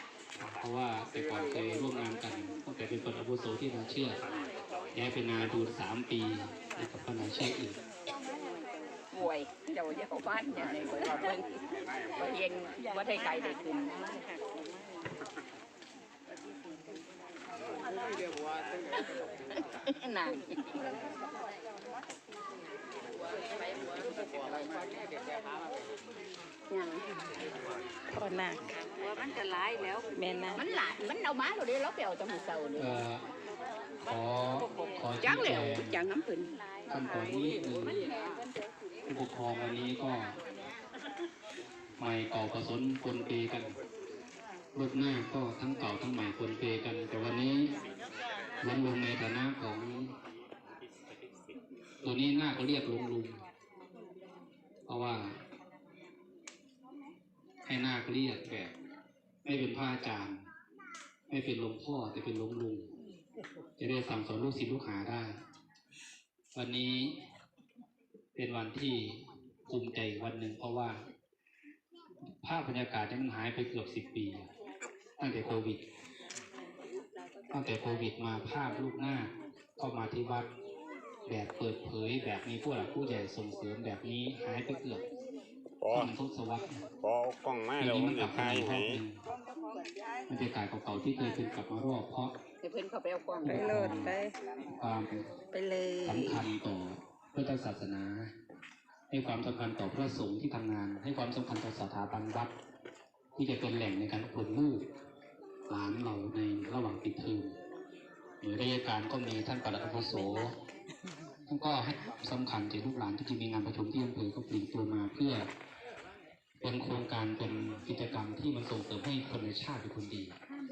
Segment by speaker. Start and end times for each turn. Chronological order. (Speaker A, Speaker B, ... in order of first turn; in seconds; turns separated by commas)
Speaker A: 0.4-4.4, Speaker A: 4.9-7.8, Speaker B: 9.1-11.5, Speaker C: 12.0-12.3, Speaker B: 12.2-14.1, Speaker B: 19.9-20.7, Speaker B: 26.7-27.1, Speaker D: 28.1-28.6, Speaker D: 30.1-30.6, Speaker B: 30.6-33.0, Speaker A: 32.8-33.2, Speaker A: 34.1-36.0, Speaker B: 35.2-36.5, Speaker A: 36.9-38.1, Speaker A: 39.1-40.3, Speaker A: 42.0-43.8, Speaker A: 44.8-47.7, Speaker A: 48.6-50.1, Speaker A: 52.0-53.4, Speaker A: 54.9-55.4, Speaker A: 57.7-58.7, Speaker A: 59.5-60.4, Speaker A: 61.3-62.9, Speaker A: 63.8-65.3, Speaker A: 66.5-67.2, Speaker A: 68.4-71.0, Speaker A: 72.4-74.5, Speaker A: 75.2-75.8, Speaker A: 77.5-80.5, Speaker A: 81.3-85.0, Speaker C: 85.8-86.1, Speaker A: 85.9-86.8, Speaker C: 87.0-89.0, Speaker A: 87.8-89.2, Speaker A: 90.3-92.3, Speaker B: 92.6-93.8, Speaker A: 93.5-94.2, Speaker D: 93.5-94.3, Speaker A: 94.7-95.2, Speaker D: 95.6-96.4, Speaker A: 96.0-98.3, Speaker A: 99.1-102.5, Speaker A: 103.4-104.8, Speaker A: 105.7-107.5, Speaker A: 108.4-110.6, Speaker A: 111.5-115.5, Speaker A: 116.6-120.3